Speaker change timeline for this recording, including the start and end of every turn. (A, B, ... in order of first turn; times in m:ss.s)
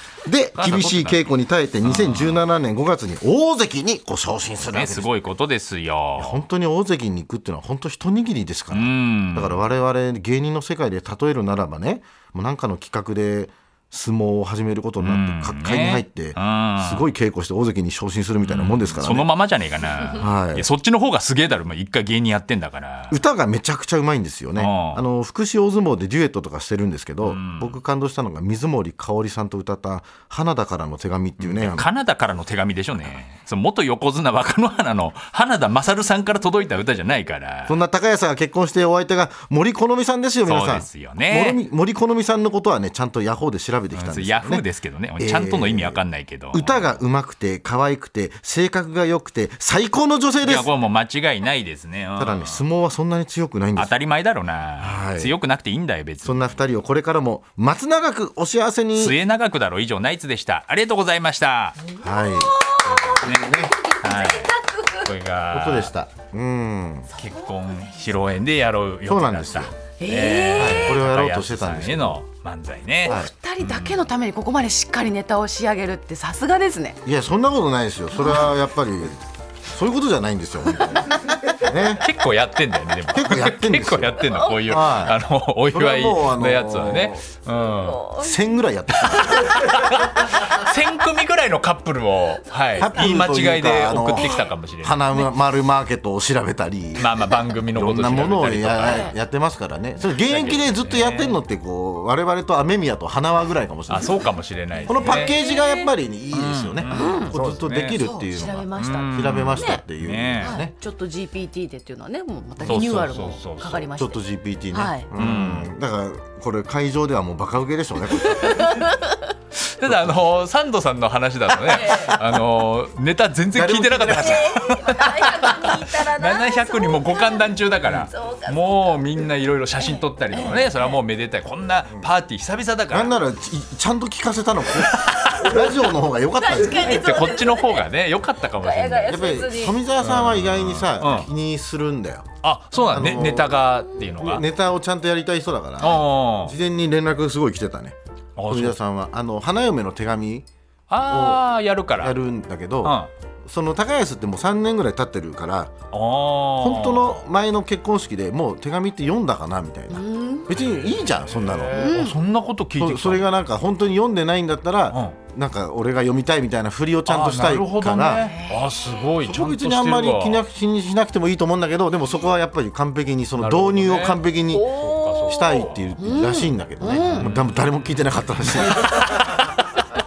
0:00.2-0:05.1 A
0:00.6-0:01.3 B
0:01.8-0:02.4 B
0:04.7-0:06.4 B
0:06.2-0:19.3 A
0:08.7-0:09.6 B
0:15.0-0:17.1 B
0:18.4-0:23.2 B
0:20.1-0:20.7 A
0:23.1-0:31.9 A
0:24.6-0:25.0 B
0:27.2-0:27.8 B
0:31.4-0:37.8 B
0:37.7-0:44.6 A
0:40.5-0:41.6 B
0:43.9-0:46.8 B
0:45.2-0:46.0 A
0:46.5-0:50.7 A
0:50.4-0:52.6 B
0:52.2-0:54.0 A
0:53.8-0:56.6 B
0:54.8-0:55.3 A
0:56.2-0:59.2 A
0:59.0-1:01.8 B
1:01.8-1:05.1 C
1:02.0-1:03.8 A
1:03.1-1:05.9 B
1:05.5-1:07.1 A
1:07.2-1:14.0 B
1:07.2-1:08.0 C
1:09.1-1:09.7 A
1:10.0-1:11.0 C
1:10.6-1:12.2 A
1:13.0-1:13.3 A
1:13.1-1:17.0 C
1:17.0-1:22.1 A
1:22.0-1:28.1 B
1:23.1-1:25.2 A
1:24.2-1:24.6 C
1:25.7-1:27.2 A
1:27.7-1:28.6 C
1:28.1-1:29.8 A
1:29.0-1:35.2 B
1:32.8-1:44.2 A
1:34.2-1:34.4 C
1:37.0-1:39.1 B
1:38.8-1:39.1 C
1:40.1-1:41.4 B
1:43.9-1:45.4 B
1:44.8-1:45.9 C
1:44.9-1:50.7 A
1:46.3-1:48.0 B
1:46.9-1:47.3 C
1:48.0-1:49.8 C
1:48.7-1:50.6 B
1:50.4-1:54.2 C
1:52.6-1:53.2 A
1:52.6-1:53.9 B
1:53.9-1:58.8 A
1:54.7-1:55.1 C
1:55.1-1:55.7 B
1:58.2-1:59.3 C
1:59.7-2:13.2 B
1:59.9-2:00.2 A
2:01.6-2:02.2 C
2:03.5-2:04.6 A
2:04.1-2:09.1 C
2:09.8-2:10.9 C
2:12.9-2:17.2 A
2:14.8-2:15.7 B
2:16.3-2:17.9 C
2:16.6-2:19.4 B
2:18.5-2:19.8 C
2:19.1-2:22.3 A
2:20.0-2:21.3 B
2:22.4-2:24.4 B
2:22.8-2:23.6 A
2:24.2-2:28.0 A
2:25.8-2:26.6 B
2:28.4-2:28.8 B
2:28.5-2:30.5 A
2:30.9-2:32.2 B
2:31.1-2:31.4 A
2:32.0-2:35.7 A
2:32.8-2:33.1 B
2:35.9-2:37.2 B
2:36.6-2:42.0 A
2:39.9-2:40.5 C
2:40.5-2:43.3 B
2:41.7-2:42.2 C
2:42.8-2:48.3 A
2:44.9-2:45.2 B
2:47.1-2:50.4 B
2:48.2-2:48.8 C
2:49.2-2:59.2 A
2:53.4-2:55.9 B
2:54.5-2:57.3 C
2:57.0-2:57.9 B
2:58.4-2:59.6 B